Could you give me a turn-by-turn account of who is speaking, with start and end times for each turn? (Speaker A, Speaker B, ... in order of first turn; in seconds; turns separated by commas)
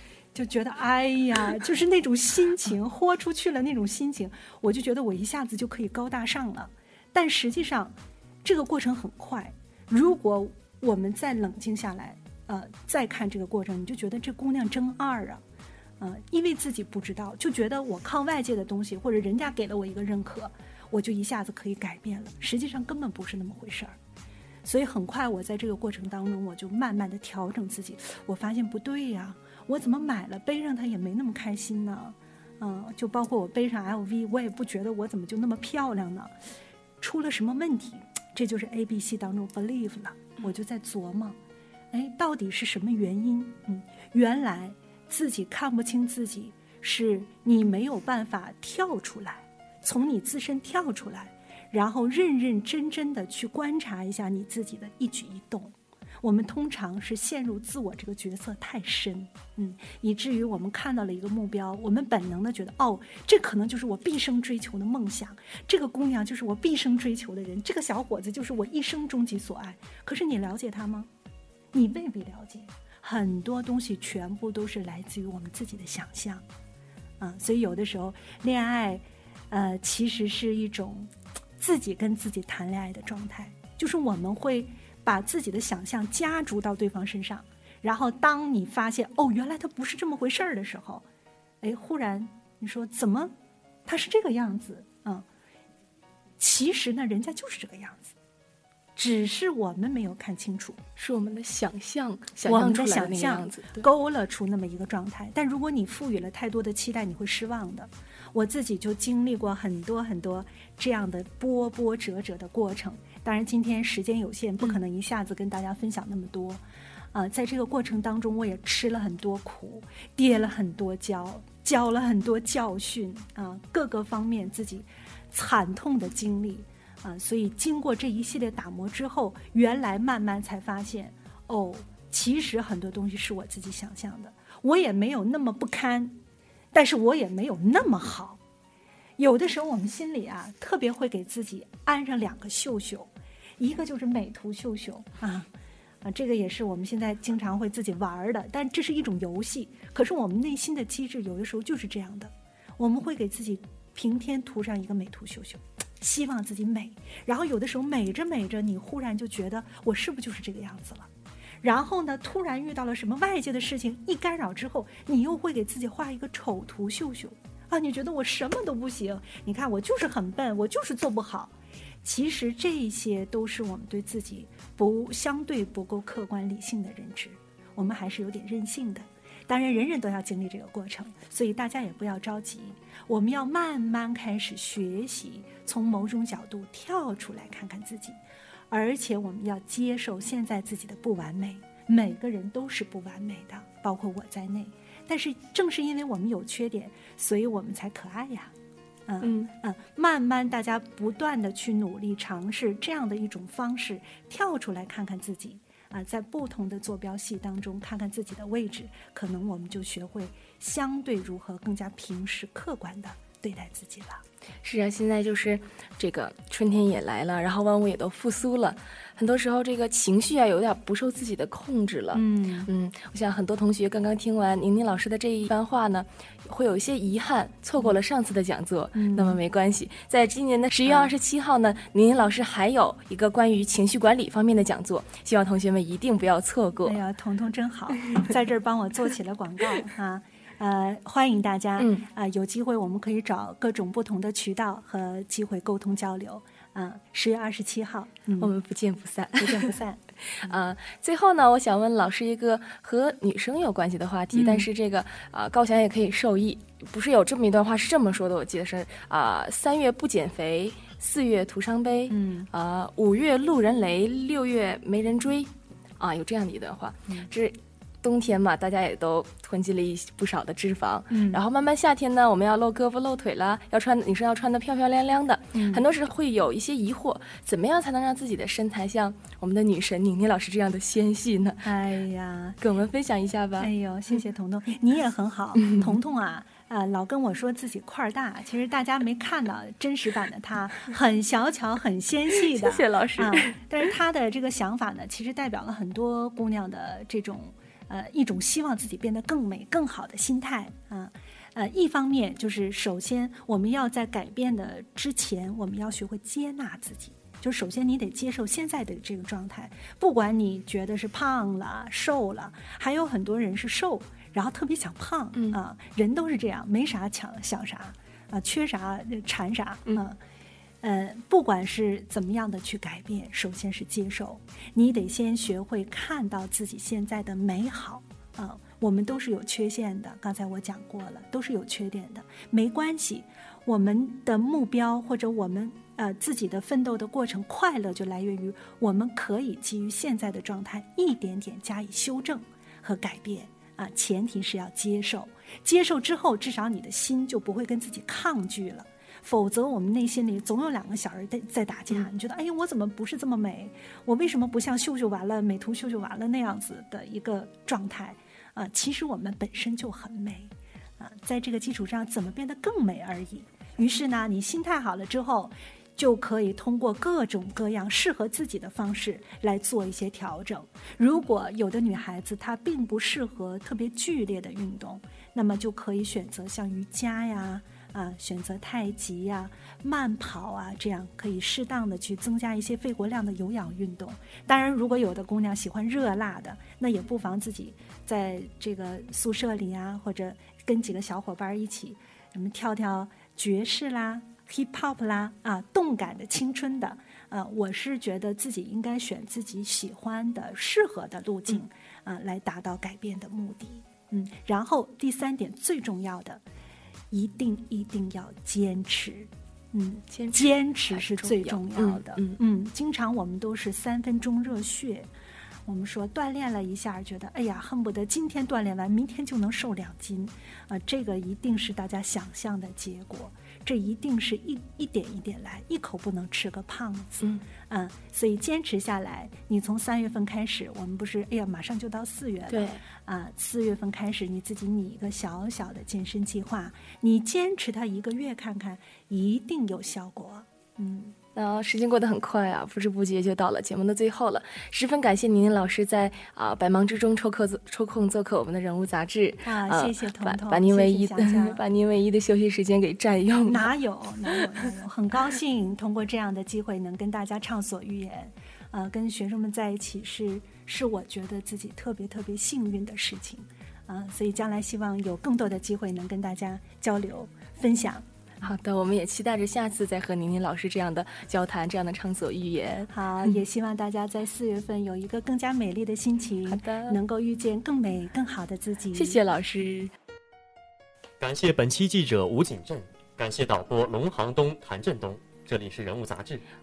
Speaker A: 0.3-15.4, Speaker A: 16.0-24.0, Speaker A: 24.6-36.3, Speaker A: 37.0-41.4, Speaker A: 41.9-71.1, Speaker A: 71.7-76.4, Speaker A: 77.2-91.0, Speaker A: 91.6-93.3, Speaker A: 93.8-95.2, Speaker A: 96.4-98.1, Speaker A: 99.0-100.8, Speaker B: 101.0-103.9, Speaker A: 102.4-116.6, Speaker A: 117.1-136.2, Speaker A: 136.7-138.4, Speaker A: 139.2-145.5, Speaker A: 146.0-161.1, Speaker A: 161.6-188.2, Speaker A: 188.7-198.5, Speaker A: 199.1-214.2, Speaker B: 214.6-237.0, Speaker A: 222.1-222.7, Speaker A: 228.9-229.4, Speaker A: 230.9-231.1, Speaker A: 236.8-248.5, Speaker B: 241.8-242.0, Speaker B: 248.4-249.7, Speaker A: 249.4-250.6, Speaker B: 250.3-281.7, Speaker A: 254.3-254.7, Speaker A: 262.1-262.5, Speaker A: 271.1-271.4, Speaker A: 275.5-275.8, Speaker A: 281.6-282.6, Speaker B: 282.6-283.7, Speaker A: 283.6-320.2, Speaker B: 292.4-293.6, Speaker A: 320.8-406.4, Speaker A: 407.1-415.1, Speaker B: 410.1-412.4, Speaker A: 415.6-441.1, Speaker B: 432.5-432.8, Speaker B: 441.3-453.6, Speaker A: 449.4-451.6, Speaker A: 453.4-468.0, Speaker B: 468.4-472.9, Speaker A: 472.9-479.2, Speaker B: 476.5-477.0, Speaker B: 478.9-479.9, Speaker C: 481.2-486.4